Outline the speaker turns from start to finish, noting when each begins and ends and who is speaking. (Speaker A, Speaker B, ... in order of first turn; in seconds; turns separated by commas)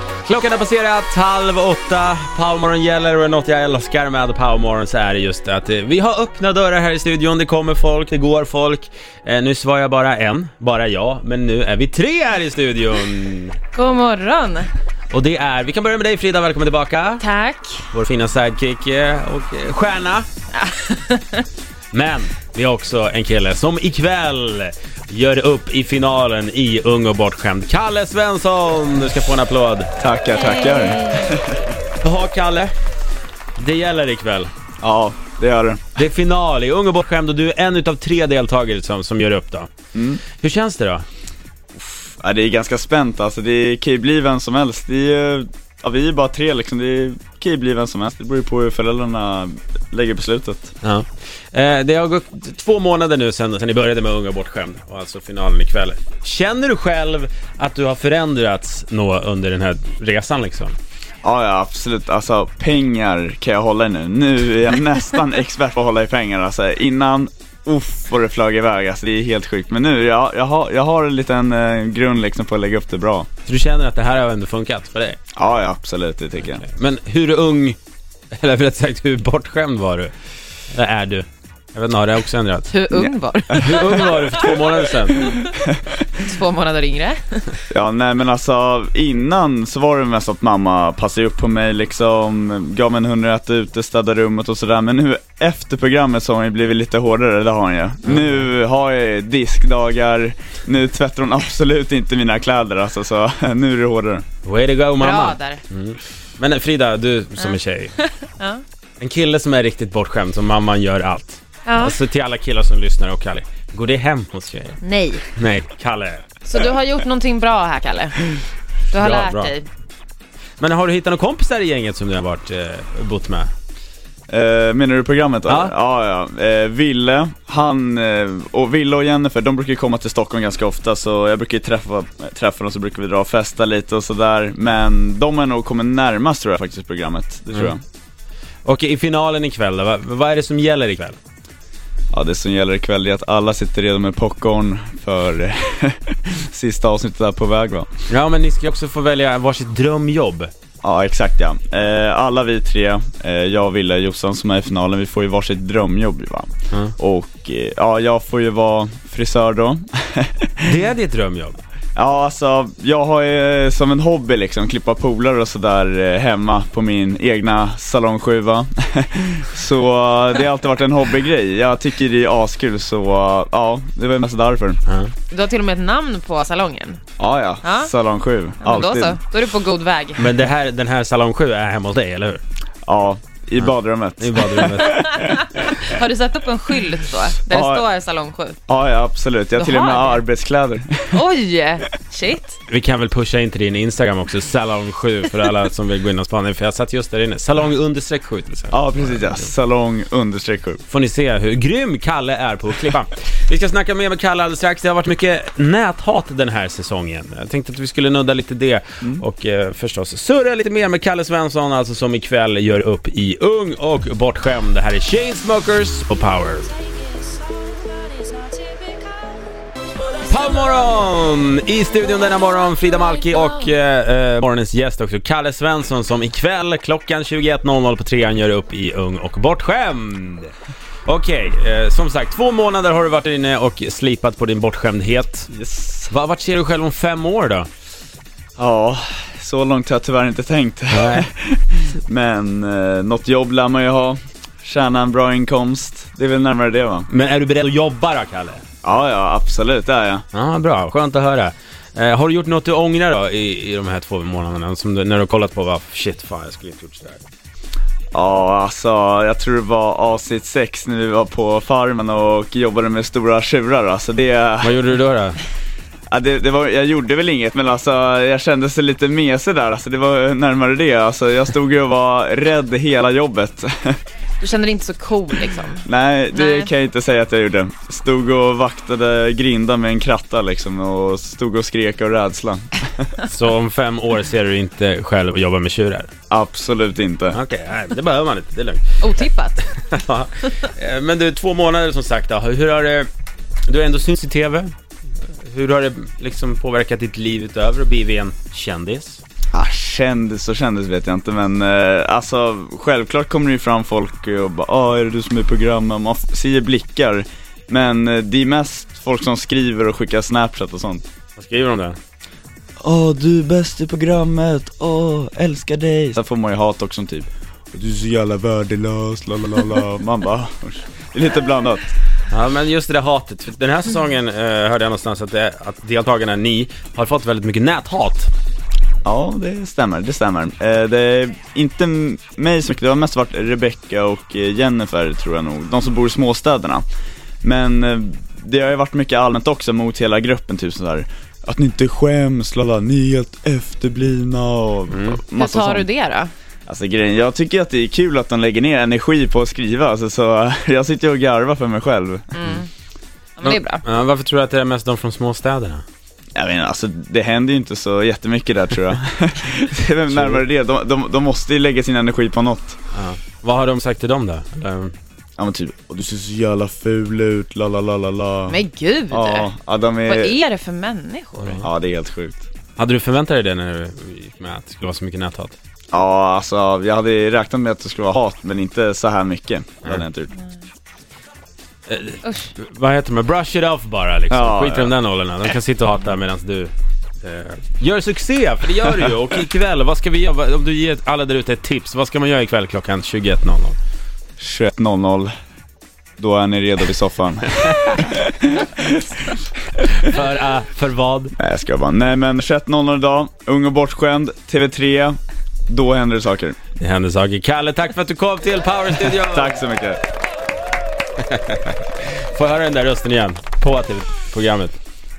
Speaker A: 0.2-13.6, Speaker B: 13.7-14.7, Speaker A: 15.1-17.2, Speaker B: 17.2-17.9, Speaker A: 17.9-20.2, Speaker B: 20.5-21.4, Speaker A: 21.9-29.9, Speaker C: 30.0-31.7, Speaker B: 30.4-31.2, Speaker A: 32.0-32.7, Speaker A: 33.5-34.5, Speaker C: 34.8-35.8, Speaker A: 36.0-39.7, Speaker C: 39.9-40.2, Speaker A: 40.4-41.0, Speaker C: 41.8-50.7, Speaker A: 50.8-60.8, Speaker C: 61.2-73.3, Speaker A: 73.5-75.2, Speaker C: 75.3-76.6, Speaker A: 76.4-77.8, Speaker A: 78.3-80.1, Speaker A: 80.7-82.7, Speaker B: 82.7-84.6, Speaker C: 82.9-83.9, Speaker A: 83.5-85.4, Speaker C: 85.4-85.8, Speaker B: 86.1-87.5, Speaker C: 87.7-104.2, Speaker A: 98.0-98.4, Speaker A: 104.4-108.0, Speaker B: 105.0-105.6, Speaker B: 107.4-108.6, Speaker A: 109.0-114.8, Speaker B: 111.7-112.0, Speaker B: 114.8-115.2, Speaker A: 115.3-116.3, Speaker B: 116.4-118.2, Speaker B: 118.9-119.7, Speaker A: 118.9-119.5, Speaker A: 120.6-123.5, Speaker C: 124.3-137.8, Speaker A: 125.5-125.7, Speaker A: 138.6-141.2, Speaker C: 142.1-147.9, Speaker A: 148.1-150.5, Speaker C: 150.8-160.8, Speaker A: 160.6-161.6, Speaker C: 161.9-174.8, Speaker A: 174.8-175.1, Speaker B: 175.3-177.0, Speaker C: 177.2-179.2, Speaker B: 177.6-177.9, Speaker B: 178.6-180.3, Speaker A: 180.2-182.4, Speaker C: 182.8-185.4, Speaker A: 183.6-185.8, Speaker B: 185.4-188.6, Speaker C: 187.5-187.8, Speaker C: 188.7-191.2, Speaker B: 189.6-190.2, Speaker B: 191.1-192.6, Speaker A: 192.7-199.4, Speaker C: 198.7-200.8, Speaker A: 200.9-216.7, Speaker B: 218.3-219.1, Speaker A: 220.2-230.5, Speaker A: 231.0-235.5, Speaker C: 235.5-236.1, Speaker A: 236.1-237.7, Speaker C: 238.6-247.1, Speaker A: 240.9-241.3, Speaker A: 247.1-248.6, Speaker C: 248.8-250.2, Speaker A: 250.3-257.2, Speaker C: 258.1-264.8, Speaker A: 264.6-265.4, Speaker C: 266.1-274.0, Speaker B: 274.4-276.7, Speaker C: 275.9-283.1, Speaker A: 283.2-286.1, Speaker C: 286.3-287.4, Speaker A: 287.3-289.2, Speaker B: 289.0-289.6, Speaker A: 289.8-293.1, Speaker A: 293.7-294.7, Speaker A: 295.4-299.2, Speaker C: 299.5-311.0, Speaker A: 311.4-312.0, Speaker C: 312.8-321.9, Speaker A: 322.3-328.3, Speaker C: 329.0-336.8, Speaker C: 337.4-345.9, Speaker A: 344.9-345.2, Speaker B: 345.4-346.3, Speaker C: 346.7-352.3, Speaker B: 352.3-352.7, Speaker B: 353.4-353.8, Speaker A: 353.4-355.8, Speaker C: 356.3-362.8, Speaker A: 360.1-360.4, Speaker A: 362.9-364.9, Speaker C: 365.4-368.6, Speaker B: 368.5-369.5, Speaker C: 369.1-370.4, Speaker B: 370.0-371.6, Speaker A: 371.4-371.6, Speaker C: 371.6-372.4, Speaker A: 372.8-375.6, Speaker C: 375.9-380.3, Speaker A: 381.9-393.8, Speaker B: 382.2-382.5, Speaker C: 384.3-384.9, Speaker C: 394.4-395.3, Speaker C: 396.2-399.4, Speaker A: 399.9-401.3, Speaker C: 401.4-405.2, Speaker C: 405.7-406.6, Speaker A: 406.8-409.6, Speaker C: 409.0-410.0, Speaker A: 411.2-414.8